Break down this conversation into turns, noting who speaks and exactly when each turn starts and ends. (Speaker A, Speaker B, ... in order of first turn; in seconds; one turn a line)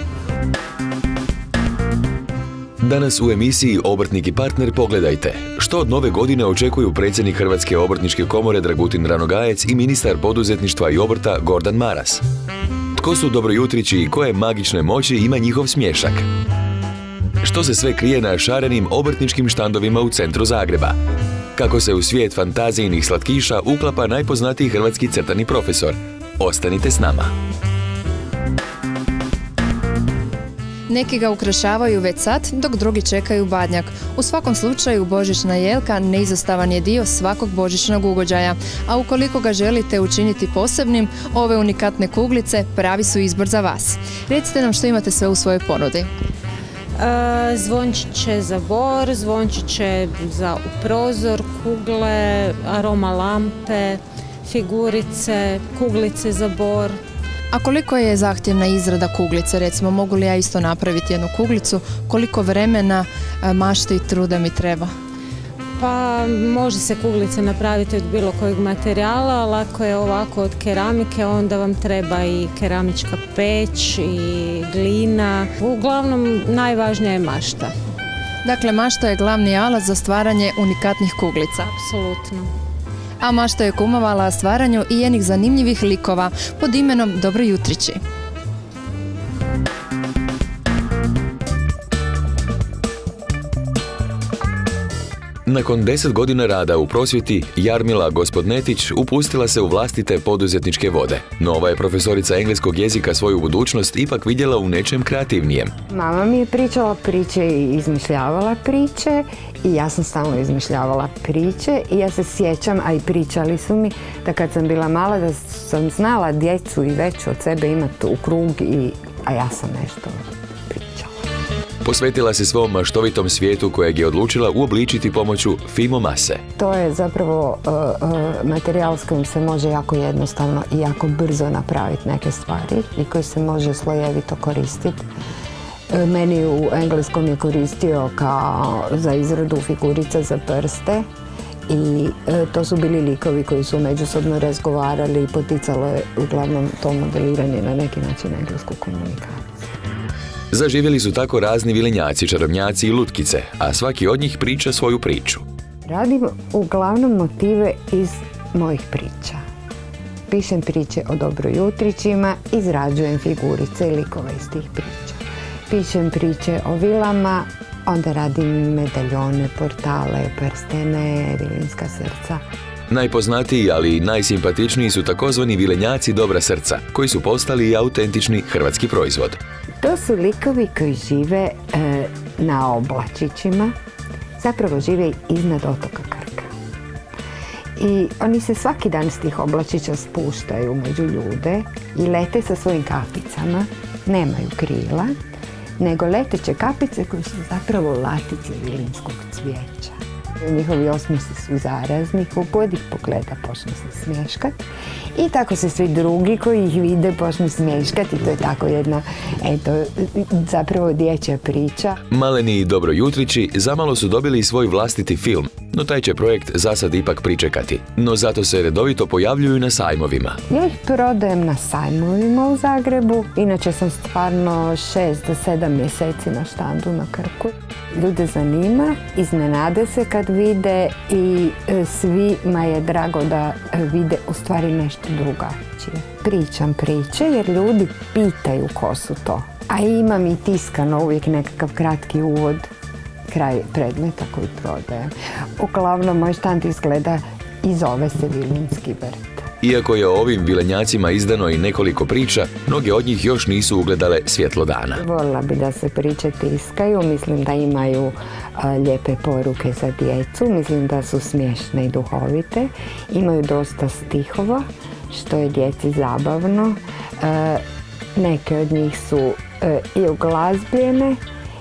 Speaker A: 2.8-12.2
Speaker A: 13.0-16.3
Speaker A: 17.4-21.0
Speaker A: 21.6-27.3
Speaker B: 30.9-46.1
Speaker C: 47.0-57.0
Speaker B: 57.5-64.9
Speaker C: 65.8-77.7
Speaker B: 78.5-81.7
Speaker C: 81.6-82.5
Speaker B: 83.2-88.0
Speaker A: 95.5-105.7
Speaker D: 105.9-121.2
Speaker A: 121.8-126.4
Speaker D: 126.6-135.1
Speaker D: 135.9-141.1
Speaker D: 141.7-149.7
Speaker A: 150.5-155.4
Speaker D: 155.9-159.4
Speaker D: 160.3-172.4
Speaker A: 172.9-179.4
Speaker D: 179.8-183.8
Speaker D: 184.4-186.5
Speaker D: 187.8-195.2
Speaker D: 195.8-204.6
Speaker D: 205.2-212.0
Speaker A: 212.1-220.4
Speaker D: 220.5-242.7
Speaker D: 243.3-249.5
Speaker A: 249.6-255.0
Speaker D: 255.0-267.6
Speaker D: 268.2-271.2